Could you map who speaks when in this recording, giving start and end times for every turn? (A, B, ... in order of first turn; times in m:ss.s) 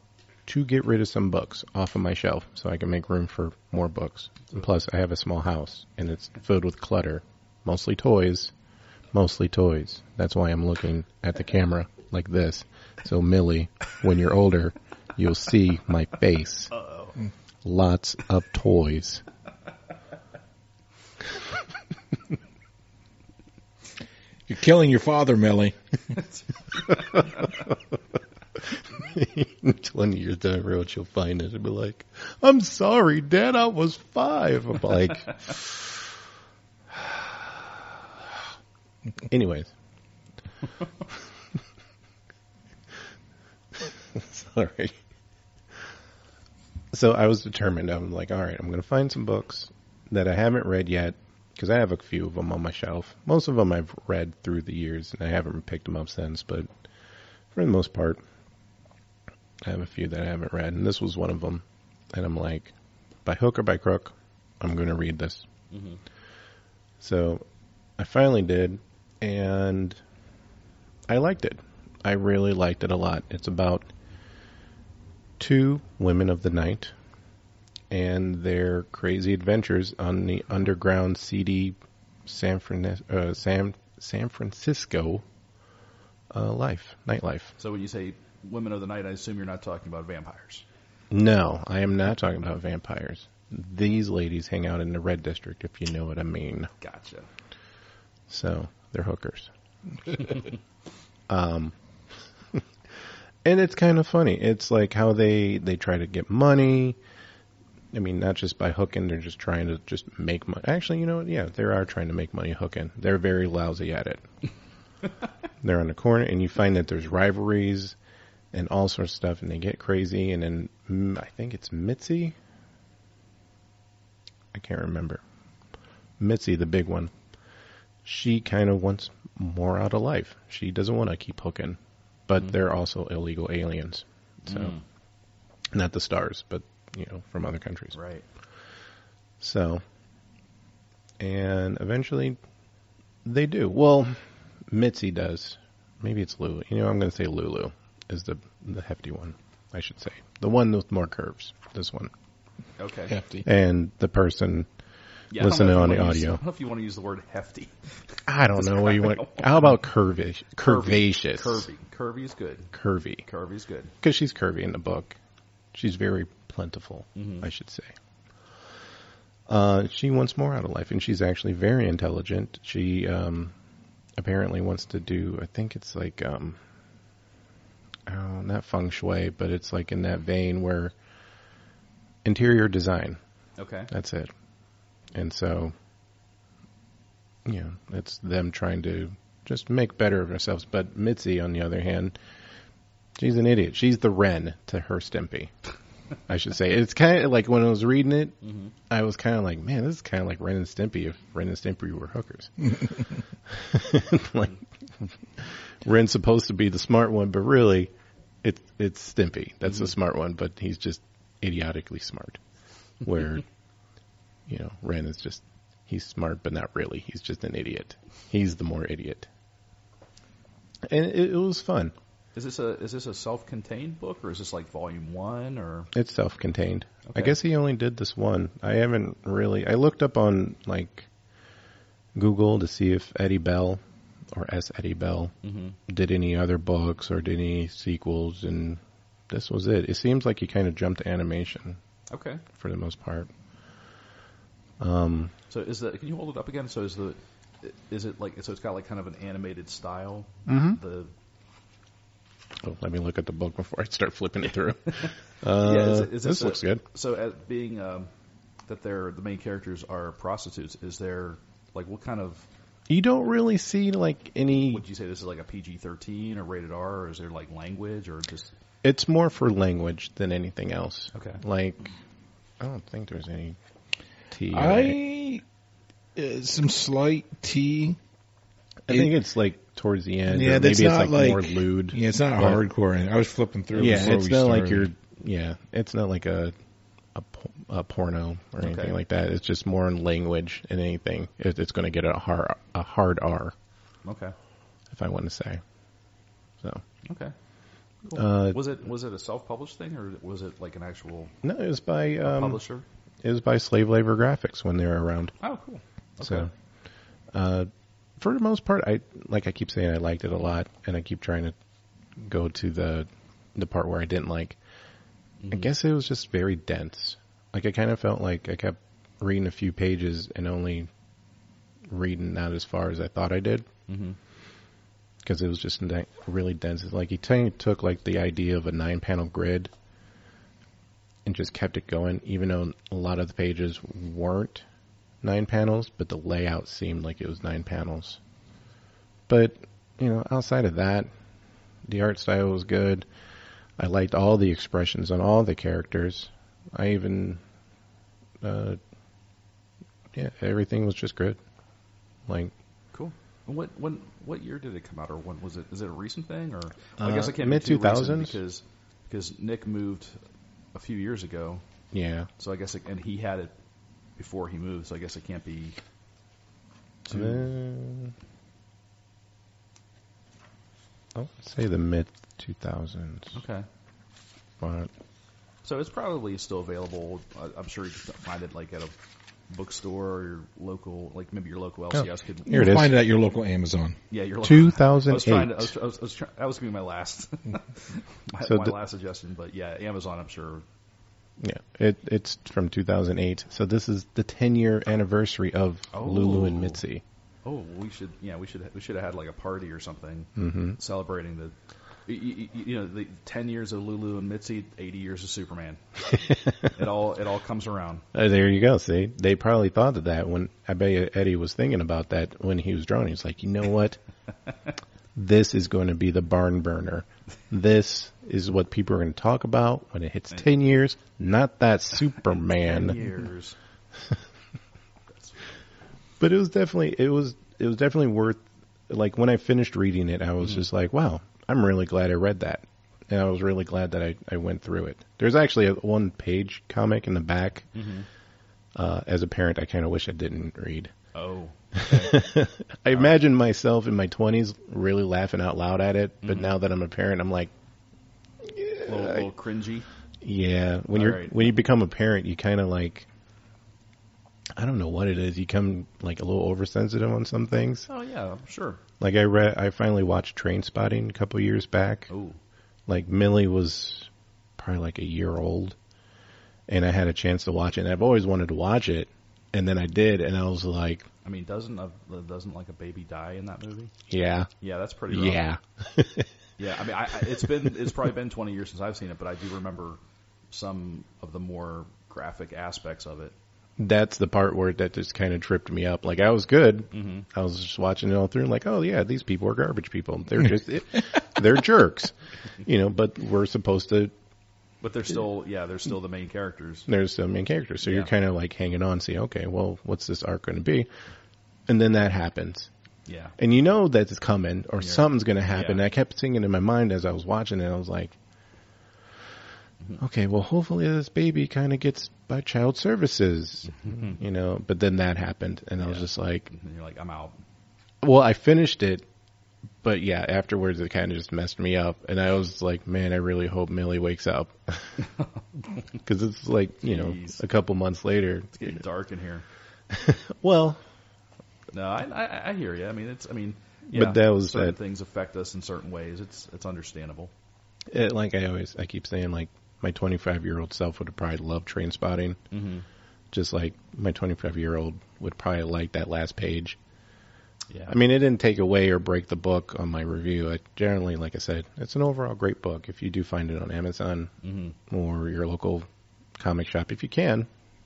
0:00.4-0:08.5 A
0:09.1-0:16.7 A
0:16.7-0:17.2 B
0:17.6-0:19.2 A
0:24.5-0:26.2 C
0:29.0-0:36.0 A
0:36.9-0:37.9 A
0:39.3-0:39.7 A
0:43.8-0:45.0 A
0:46.9-0:56.7 A
0:57.5-0:58.2 A
0:59.6-1:02.7 A
1:03.2-1:05.4 A
1:05.7-1:06.0 B
1:07.0-1:07.4 A
1:08.0-1:10.0 A
1:11.1-1:13.9 A
1:15.4-1:16.9 A
1:17.9-1:25.2 A
1:26.3-1:27.5 A
1:27.6-1:30.6 B
1:31.1-1:36.7 A
1:36.8-1:37.3 B
1:38.3-1:39.5 A
1:41.3-1:41.8 A
1:43.4-1:47.0 A
1:47.9-1:54.2 A
1:55.6-1:58.0 A
1:58.5-2:02.4 A
2:04.5-2:05.2 A
2:06.2-2:07.1 A
2:08.0-2:14.7 A
2:14.4-2:14.8 B
2:15.7-2:18.0 A
2:17.9-2:18.2 B
2:19.4-2:19.8 A
2:21.2-2:22.4 A
2:23.2-2:32.1 A
2:32.8-2:33.2 B
2:33.1-2:33.4 C
2:33.4-2:34.7 A
2:35.3-2:37.8 B
2:35.3-2:36.4 A
2:38.3-2:41.6 A
2:38.5-2:39.7 B
2:40.6-2:42.7 B
2:42.7-2:43.2 A
2:43.2-2:43.9 B
2:44.0-2:45.2 A
2:45.7-2:47.9 A
2:47.2-2:47.4 B
2:49.5-2:53.5 A
2:54.2-2:56.6 A
2:58.1-3:00.9 A
3:02.2-3:03.2 A
3:03.6-3:03.9 B
3:03.9-3:04.3 A
3:05.1-3:05.7 A
3:07.4-3:12.1 A
3:13.2-3:15.5 A
3:16.3-3:18.4 A
3:18.4-3:18.7 B
3:18.9-3:27.9 A
3:28.4-3:32.4 A
3:33.0-3:33.4 A
3:34.5-3:39.3 A
3:40.8-3:41.9 A
3:42.3-3:45.9 B
3:45.9-3:51.1 A
3:47.1-3:47.4 B
3:52.1-3:55.3 A
3:55.4-3:55.8 B
3:55.8-4:01.8 A
4:02.1-4:02.4 B
4:02.5-4:03.3 A
4:04.8-4:05.3 A
4:05.5-4:11.1 B
4:10.5-4:10.8 A
4:12.6-4:16.8 A
4:14.9-4:18.1 B
4:18.7-4:22.5 B
4:22.9-4:24.8 A
4:24.7-4:28.5 B
4:28.8-4:31.9 A
4:31.1-4:31.4 B
4:32.6-4:33.6 A
4:34.3-4:35.0 A
4:34.5-4:35.4 C
4:36.2-4:38.0 C
4:38.9-4:42.6 A
4:40.3-4:44.9 C
4:43.7-4:46.5 A
4:47.1-4:53.5 A
4:48.6-4:49.0 B
4:54.0-4:54.3 B
4:54.9-4:55.6 A
4:57.0-4:57.3 B
4:58.0-5:01.3 B
4:58.1-4:58.6 A
5:01.4-5:02.6 A
5:02.2-5:02.8 B
5:03.2-5:05.3 A
5:05.4-5:06.5 B
5:06.2-5:06.5 A
5:07.3-5:11.5 A
5:12.2-5:14.6 A
5:15.4-5:15.7 B
5:15.5-5:20.9 A
5:21.9-5:23.7 A
5:23.9-5:24.2 B
5:25.2-5:29.7 A
5:31.2-5:34.6 A
5:35.2-5:38.2 A
5:39.3-5:41.1 A
5:41.8-5:43.0 A
5:43.8-5:47.4 A
5:48.4-5:48.8 A
5:50.1-5:51.4 A
5:52.3-5:52.5 A
5:52.9-6:00.2 B
5:57.0-5:58.4 A
6:00.7-6:01.6 B
6:01.9-6:02.3 A
6:02.4-6:03.5 B
6:04.2-6:05.8 B
6:07.1-6:07.5 B
6:07.1-6:08.1 A
6:11.1-6:13.4 A
6:13.3-6:13.7 B
6:14.6-6:14.9 A
6:15.6-6:18.9 B
6:19.5-6:22.8 B
6:21.9-6:22.9 A
6:22.5-6:24.0 C
6:24.1-6:30.6 B
6:24.4-6:25.7 A
6:28.4-6:28.8 A
6:31.4-6:37.0 A
6:35.9-6:36.8 B
6:37.4-6:41.5 B
6:40.4-6:40.8 A
6:42.1-6:45.8 B
6:46.1-6:46.7 A
6:46.6-6:48.0 B
6:48.1-6:54.0 A
6:55.1-7:03.0 A
7:02.6-7:03.6 B
7:05.1-7:05.5 B
7:06.2-7:17.7 A
7:17.7-7:18.1 B
7:18.8-7:20.9 A
7:21.1-7:22.2 B
7:21.8-7:27.5 A
7:26.2-7:26.5 B
7:28.5-7:29.3 A
7:28.8-7:29.9 B
7:30.2-7:33.1 A
7:30.9-7:31.4 B
7:34.6-7:37.9 A
7:37.9-7:38.8 B
7:39.0-7:42.1 A
7:42.1-7:42.4 B
7:42.9-7:45.8 A
7:46.7-7:51.1 A
7:51.2-7:53.9 B
7:54.1-7:54.5 A
7:54.6-7:55.4 B
7:55.1-7:56.3 A
7:56.6-8:00.0 B
8:00.5-8:03.3 B
8:03.8-8:14.1 A
8:06.9-8:07.2 B
8:14.8-8:16.9 B
8:16.9-8:20.9 A
8:17.8-8:18.1 B
8:21.7-8:22.7 A
8:23.1-8:23.3 B
8:23.4-8:28.2 A
8:24.8-8:25.8 B
8:30.0-8:36.5 A
8:33.8-8:34.1 B
8:35.8-8:37.4 B
8:38.0-8:39.0 A
8:39.8-8:45.0 A
8:46.0-8:48.8 A
8:46.8-8:47.4 B
8:48.5-8:49.4 B
8:49.9-8:50.8 A
8:51.7-8:57.3 B
8:53.9-8:54.8 A
8:57.9-9:02.4 A
9:02.5-9:02.8 B
9:03.3-9:06.8 A
9:07.7-9:08.0 B
9:07.9-9:14.3 A
9:14.4-9:14.8 B
9:14.9-9:15.9 A
9:16.4-9:17.5 A